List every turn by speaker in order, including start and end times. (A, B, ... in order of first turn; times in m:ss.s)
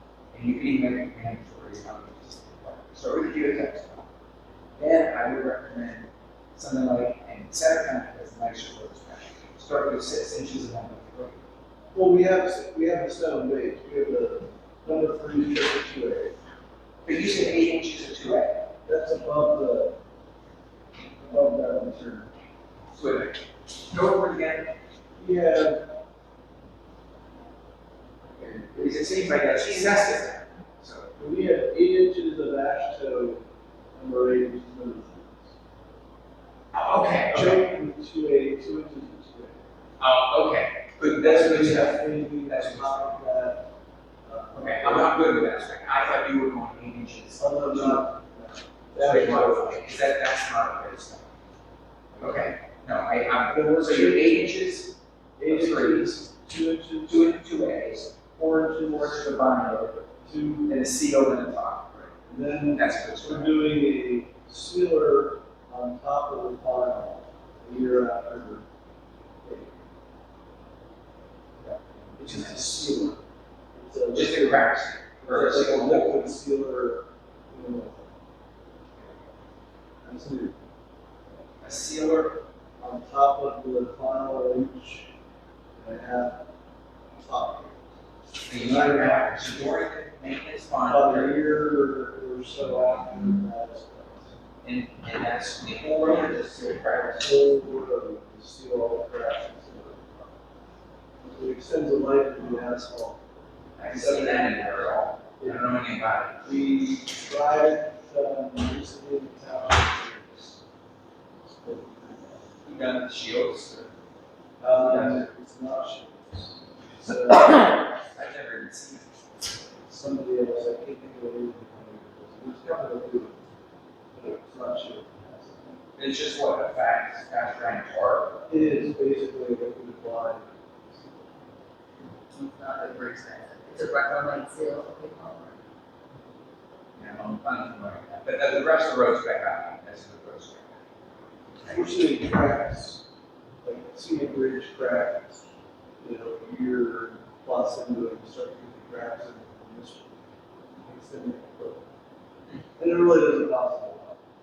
0:00.3-0:04.1 A
0:04.8-0:11.4 A
0:11.9-0:16.4 B
0:17.0-0:18.7 A
0:18.8-0:20.0 B
0:21.2-0:22.3 B
0:22.9-0:24.7 A
0:25.2-0:25.9 B
0:28.4-0:31.1 A
0:31.2-0:35.5 B
0:36.7-0:37.7 A
0:37.3-0:39.6 B
0:40.0-0:43.2 A
0:41.0-0:43.7 B
0:44.2-0:45.5 B
0:44.5-0:48.1 A
0:47.4-0:49.9 B
0:49.0-0:51.3 A
0:52.1-0:56.2 A
0:53.5-0:54.5 B
0:55.4-0:57.4 B
0:57.1-0:58.1 A
0:58.4-0:59.3 B
0:58.9-1:00.1 A
1:00.2-1:00.9 B
1:00.7-1:02.1 A
1:02.2-1:08.7 B
1:02.8-1:03.7 A
1:09.4-1:09.8 B
1:11.6-1:13.1 A
1:12.2-1:13.2 B
1:13.7-1:18.1 B
1:14.1-1:16.3 A
1:20.0-1:20.6 B
1:21.6-1:22.4 A
1:22.8-1:25.1 B
1:25.8-1:26.5 B
1:27.2-1:27.9 B
1:28.4-1:31.4 A
1:28.5-1:29.8 B
1:30.9-1:34.3 B
1:34.6-1:37.4 A
1:36.9-1:40.3 B
1:41.2-1:43.2 B
1:43.8-1:46.4 A
1:43.9-1:45.8 B
1:46.4-1:50.6 B
1:51.4-1:52.5 B
1:52.6-1:53.9 A
1:54.6-1:57.8 B
1:54.8-1:55.3 A
1:58.1-1:59.1 A
1:59.9-2:03.4 B
2:04.1-2:05.7 B
2:06.0-2:08.5 A
2:08.5-2:11.3 B
2:12.3-2:15.6 C
2:17.0-2:20.8 A
2:21.6-2:23.0 B
2:23.6-2:25.4 B
2:26.0-2:30.2 B
2:30.8-2:31.8 B
2:32.8-2:34.2 B